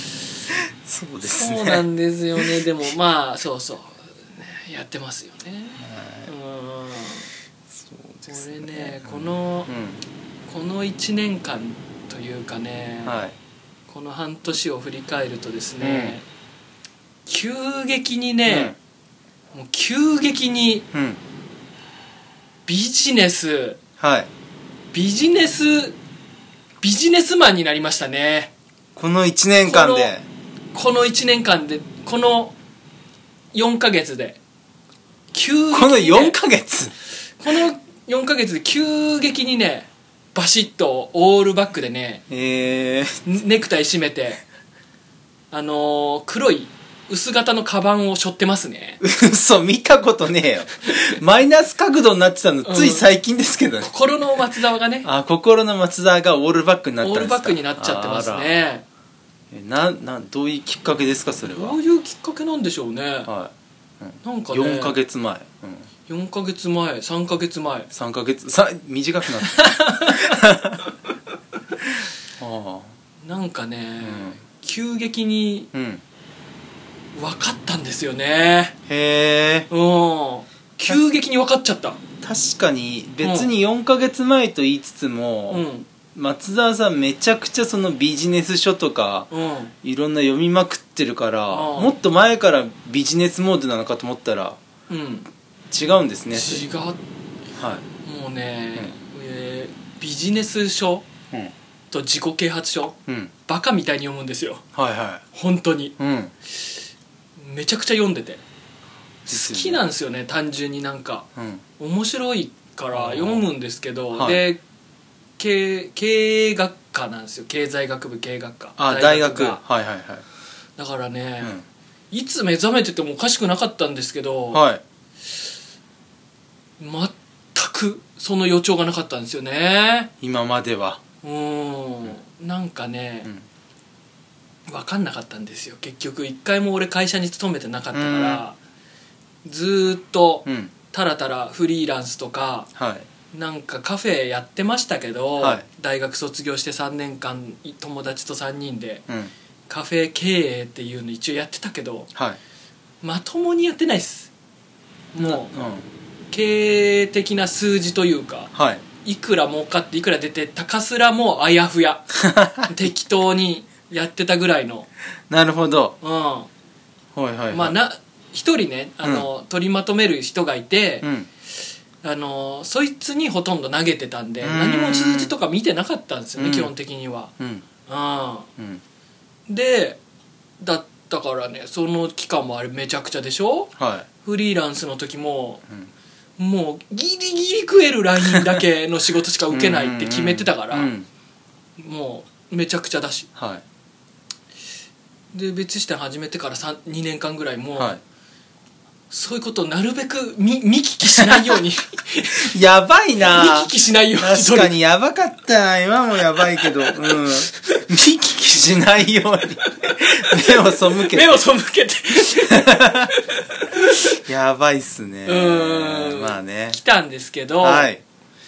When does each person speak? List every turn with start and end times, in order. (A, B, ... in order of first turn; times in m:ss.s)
0:00.5-0:01.8 A
0:01.2-0:07.3 B
0:05.8-0:06.3 A
0:07.7-0:10.0 A
0:08.3-0:09.7 B
0:10.5-0:13.2 B
0:13.0-0:13.3 A
0:13.9-0:16.2 B
0:15.8-0:16.2 A
0:17.2-0:18.7 B
0:18.5-0:18.8 A
0:19.5-0:20.8 B
0:20.9-0:21.2 A
0:22.6-0:23.8 B
0:24.0-0:24.3 A
0:24.9-0:26.0 B
0:26.8-0:28.5 B
0:29.0-0:30.2 A
0:29.6-0:30.1 B
0:30.7-0:32.5 B
0:33.5-0:34.4 B
0:35.3-0:36.4 B
0:35.7-0:36.9 A
0:37.4-0:42.2 B
0:42.3-0:43.2 A
0:43.2-0:44.4 B
0:45.5-0:49.0 B
0:49.0-0:53.9 A
0:52.6-0:53.0 B
0:53.8-0:55.1 B
0:55.0-0:58.5 A
0:57.0-0:58.8 B
0:59.5-1:01.8 A
1:01.5-1:03.3 B
1:03.2-1:05.9 A
1:04.2-1:05.0 B
1:06.1-1:07.9 B
1:07.9-1:10.8 A
1:09.4-1:10.4 B
1:12.4-1:12.9 A
1:13.2-1:15.7 B
1:14.0-1:14.4 A
1:15.7-1:16.0 A
1:17.1-1:18.7 B
1:18.9-1:19.7 A
1:19.7-1:22.0 B
1:20.9-1:21.1 A
1:22.2-1:29.3 A
1:23.2-1:23.5 B
1:25.5-1:25.9 B
1:29.3-1:29.7 B
1:29.8-1:34.6 A
1:31.5-1:31.9 B
1:34.9-1:35.3 B
1:35.7-1:36.6 A
1:36.3-1:37.0 B
1:37.6-1:37.8 A
1:38.0-1:41.0 B
1:41.9-1:44.6 B
1:43.1-1:43.3 A
1:44.7-1:45.2 A
1:45.3-1:45.9 B
1:46.0-1:46.3 A
1:47.4-1:48.4 B
1:49.2-1:49.8 A
1:49.2-1:51.3 B
1:51.4-1:51.6 A
1:51.8-1:54.6 B
1:52.9-1:53.5 A
1:54.1-1:54.4 A
1:55.4-1:59.6 B
1:58.8-2:00.2 A
2:00.8-2:01.5 B
2:02.1-2:04.6 B
2:04.5-2:04.8 A
2:06.8-2:10.1 B
2:10.2-2:11.0 A
2:11.2-2:13.3 B
2:14.7-2:18.6 B
2:17.9-2:18.4 A
2:19.4-2:22.7 B
2:20.4-2:20.7 A
2:22.8-2:23.0 A
2:23.3-2:29.0 B
2:25.4-2:25.6 A
2:29.7-2:32.1 B
2:33.0-2:34.3 B
2:35.1-2:35.5 B
2:35.2-2:35.9 A
2:36.3-2:38.5 B
2:38.5-2:38.8 A
2:39.0-2:44.9 B
2:42.2-2:42.7 A
2:45.3-2:46.0 A
2:46.0-2:46.5 B
2:47.1-2:47.8 A
2:47.5-2:51.1 B
2:49.0-2:49.3 A
2:52.0-2:57.3 B
2:54.4-2:55.3 A
2:56.4-2:56.7 A
2:57.4-2:57.6 A
2:57.8-2:58.5 B
2:59.5-3:00.0 B
3:00.6-3:03.7 B
3:03.8-3:04.1 A
3:04.2-3:05.6 B
3:06.4-3:10.9 B
3:09.5-3:11.1 A
3:11.8-3:13.3 B
3:13.4-3:13.6 A
3:15.3-3:18.0 B
3:19.1-3:22.5 B
3:21.1-3:21.6 A
3:22.4-3:31.4 A
3:23.2-3:24.7 B
3:26.6-3:27.8 B
3:30.3-3:34.2 B
3:32.3-3:33.1 A
3:34.2-3:36.8 A
3:35.2-3:37.9 B
3:37.6-3:38.0 A